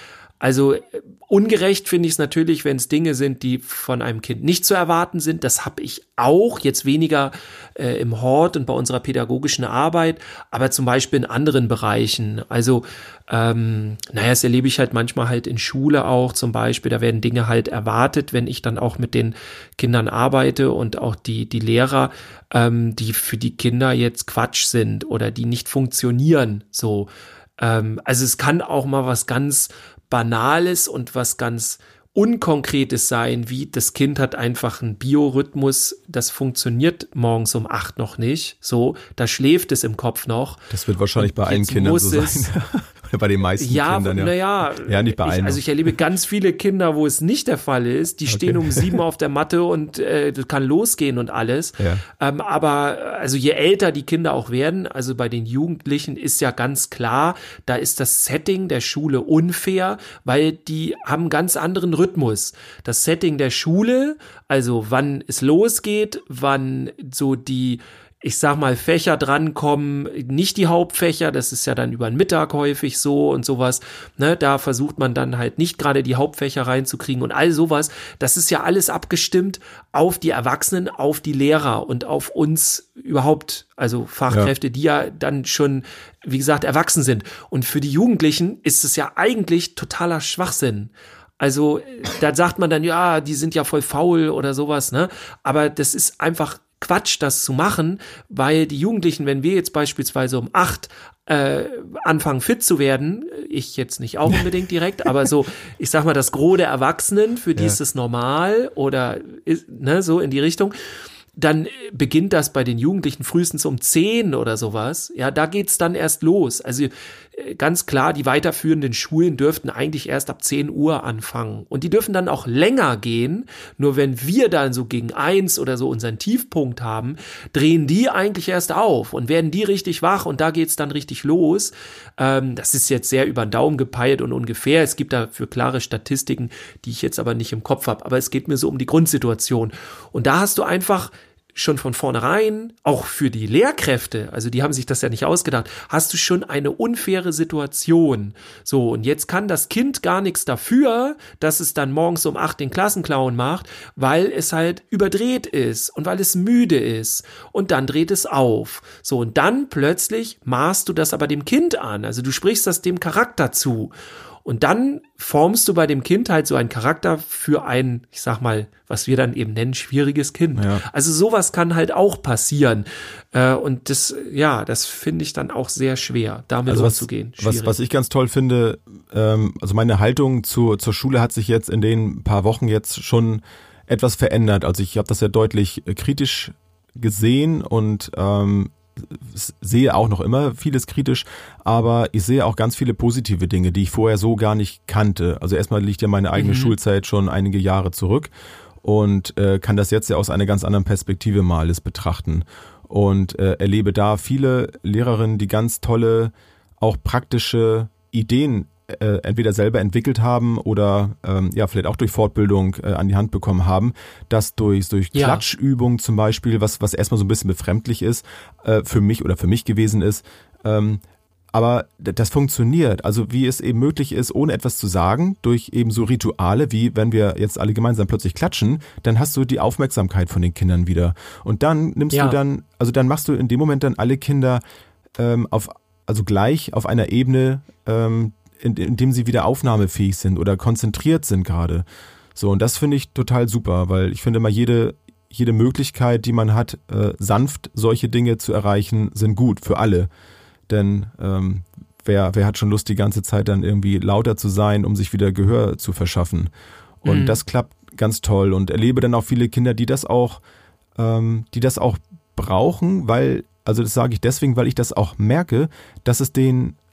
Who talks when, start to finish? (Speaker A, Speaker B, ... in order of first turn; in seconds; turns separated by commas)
Speaker A: 0.4-40.6, Speaker B: 40.7-45.6, Speaker A: 41.2-42.5, Speaker A: 43.6-110.7, Speaker B: 48.3-48.9, Speaker B: 51.8-52.0, Speaker A: 111.3-163.9, Speaker A: 164.4-177.8, Speaker B: 170.6-170.8, Speaker B: 176.7-198.3, Speaker A: 196.3-196.7, Speaker B: 198.8-234.6, Speaker A: 215.1-215.4, Speaker A: 232.1-232.4, Speaker B: 235.2-250.1, Speaker B: 250.7-256.5, Speaker B: 257.0-260.4, Speaker A: 257.0-257.4, Speaker B: 260.9-266.8